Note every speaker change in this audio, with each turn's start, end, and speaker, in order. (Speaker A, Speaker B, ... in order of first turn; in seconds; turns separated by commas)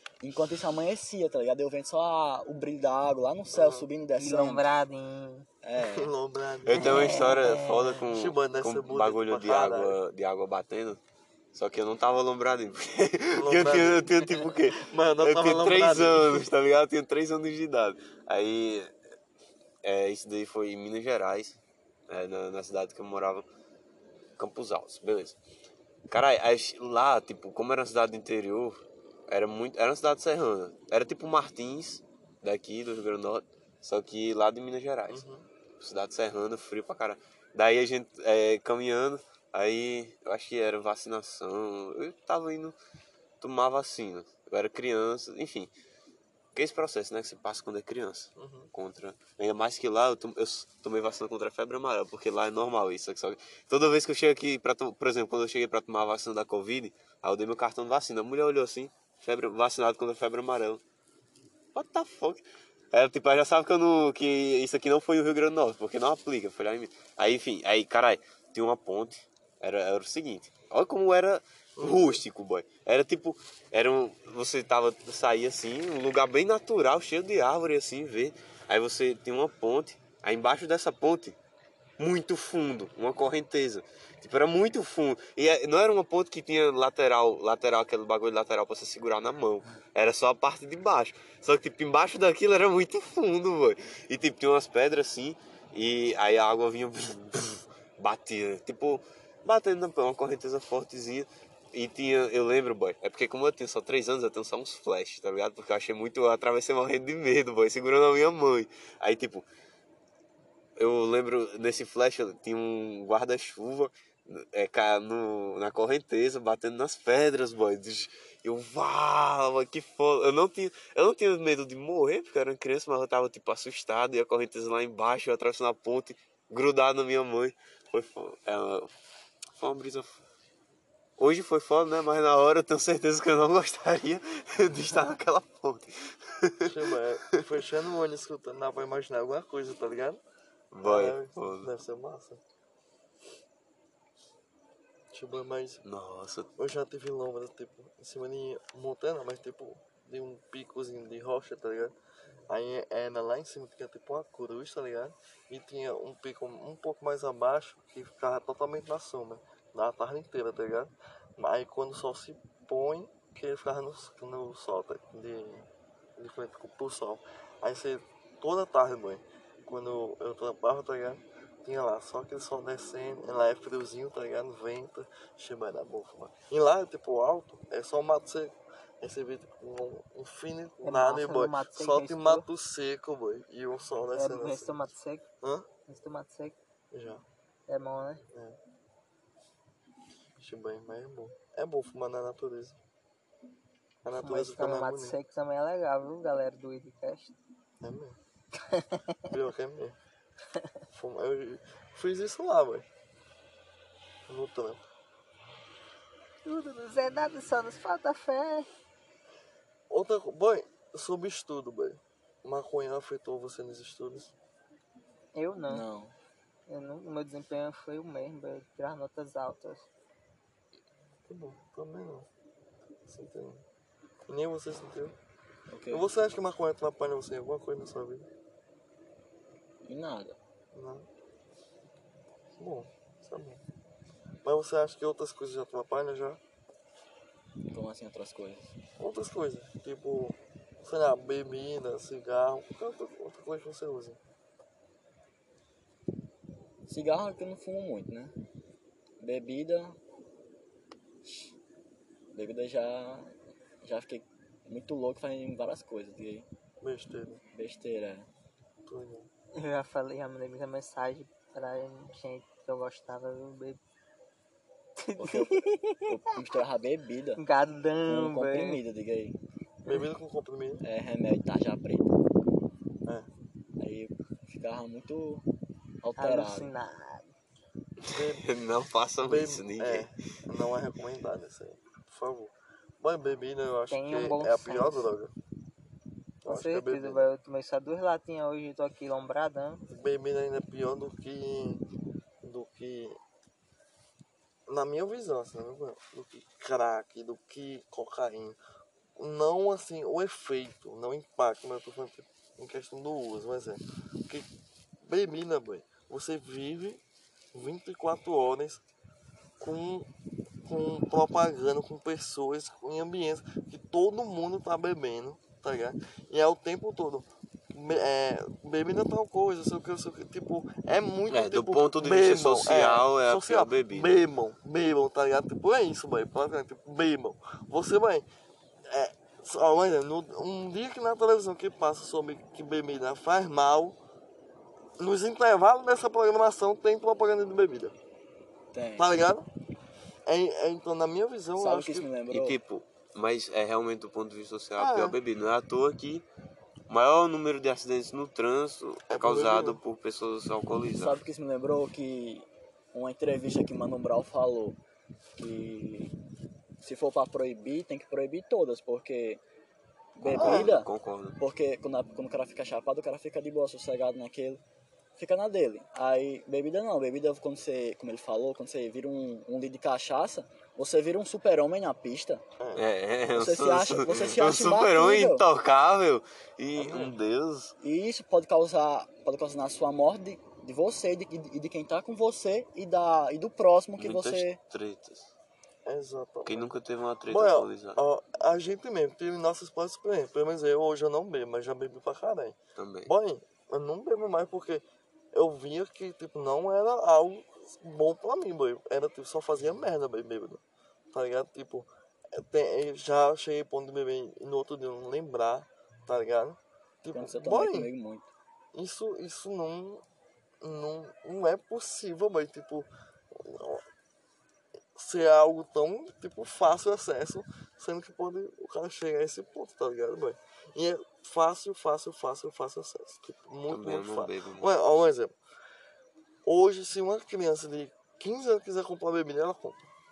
Speaker A: 0.2-4.7, Speaker B: 3.5-3.9, Speaker C: 4.2-5.5, Speaker A: 5.6-6.1, Speaker B: 5.8-7.1, Speaker D: 6.6-11.0, Speaker C: 6.8-8.0, Speaker B: 8.1-10.0, Speaker D: 11.5-18.9, Speaker B: 13.4-14.1, Speaker B: 14.8-16.4, Speaker D: 19.8-21.6, Speaker D: 22.1-23.4, Speaker D: 24.4-25.4, Speaker D: 26.1-35.2, Speaker B: 35.1-35.5, Speaker D: 35.8-42.8, Speaker D: 43.4-45.7, Speaker D: 46.5-60.8, Speaker B: 48.4-48.7, Speaker D: 61.7-81.3, Speaker B: 71.8-72.2, Speaker D: 82.0-109.5, Speaker D: 110.8-128.9, Speaker D: 129.5-130.2, Speaker D: 131.2-137.4, Speaker B: 136.6-140.2, Speaker D: 140.7-141.7, Speaker B: 140.8-142.4, Speaker B: 145.1-145.8, Speaker D: 145.8-146.5, Speaker B: 146.6-151.9, Speaker B: 152.5-184.8, Speaker C: 180.8-182.5, Speaker C: 184.1-185.2, Speaker C: 185.9-186.6, Speaker B: 186.9-187.2, Speaker C: 187.7-188.2, Speaker B: 188.3-188.6, Speaker B: 190.4-192.8, Speaker B: 194.0-195.2, Speaker C: 194.2-197.3, Speaker B: 197.8-198.2, Speaker C: 198.6-199.1, Speaker B: 199.3-199.9, Speaker B: 200.9-202.8, Speaker B: 204.3-204.8, Speaker C: 206.4-208.7, Speaker B: 209.9-214.3, Speaker C: 215.3-215.8, Speaker A: 215.7-216.1, Speaker C: 216.7-219.8, Speaker B: 221.3-222.3, Speaker B: 223.1-223.6, Speaker B: 224.3-225.1, Speaker A: 225.7-226.1, Speaker B: 225.9-228.3, Speaker A: 229.8-230.4, Speaker B: 230.7-231.1, Speaker B: 232.6-233.6, Speaker B: 234.4-236.4, Speaker A: 237.7-238.7, Speaker B: 239.0-244.2, Speaker A: 246.9-248.3, Speaker A: 249.2-250.0, Speaker A: 251.2-251.5, Speaker A: 252.3-256.5, Speaker B: 256.8-257.4, Speaker A: 257.5-258.3, Speaker B: 258.9-259.3, Speaker C: 259.5-263.8, Speaker C: 265.0-266.3, Speaker A: 265.2-267.4, Speaker C: 267.4-268.8, Speaker A: 268.1-269.4, Speaker B: 269.9-270.8, Speaker A: 270.8-272.2, Speaker A: 273.8-275.4, Speaker A: 276.0-276.7, Speaker C: 276.2-277.3, Speaker B: 278.0-278.4, Speaker D: 278.1-280.1, Speaker B: 279.2-285.3, Speaker C: 283.9-285.1, Speaker B: 286.4-287.3, Speaker C: 286.4-289.8, Speaker B: 289.9-291.8, Speaker B: 292.4-293.2, Speaker B: 294.7-298.6, Speaker B: 299.2-304.4, Speaker B: 305.0-307.0, Speaker B: 307.5-308.8, Speaker B: 309.6-310.1, Speaker B: 310.6-328.2, Speaker D: 321.3-324.2, Speaker B: 328.9-333.9, Speaker B: 335.0-337.9, Speaker A: 338.7-339.2, Speaker B: 339.0-339.4, Speaker B: 340.2-342.1, Speaker A: 341.6-342.6, Speaker D: 342.3-346.2, Speaker B: 344.8-345.1, Speaker D: 346.9-351.2, Speaker B: 349.1-349.8, Speaker A: 350.9-354.8, Speaker A: 355.4-356.1, Speaker A: 356.8-359.4, Speaker A: 360.1-364.6, Speaker D: 360.2-361.4, Speaker B: 360.3-360.7, Speaker A: 365.2-372.4, Speaker D: 372.8-377.7, Speaker A: 373.3-375.4, Speaker B: 376.7-377.1, Speaker A: 377.8-384.6, Speaker D: 384.0-385.3, Speaker B: 385.9-386.7, Speaker D: 386.4-388.0, Speaker B: 387.3-392.6, Speaker D: 392.8-393.1, Speaker B: 393.1-400.6, Speaker B: 401.1-407.9, Speaker A: 407.1-408.2, Speaker B: 408.7-410.0, Speaker B: 410.6-413.8, Speaker B: 414.9-425.3, Speaker D: 423.7-424.7, Speaker B: 426.4-429.8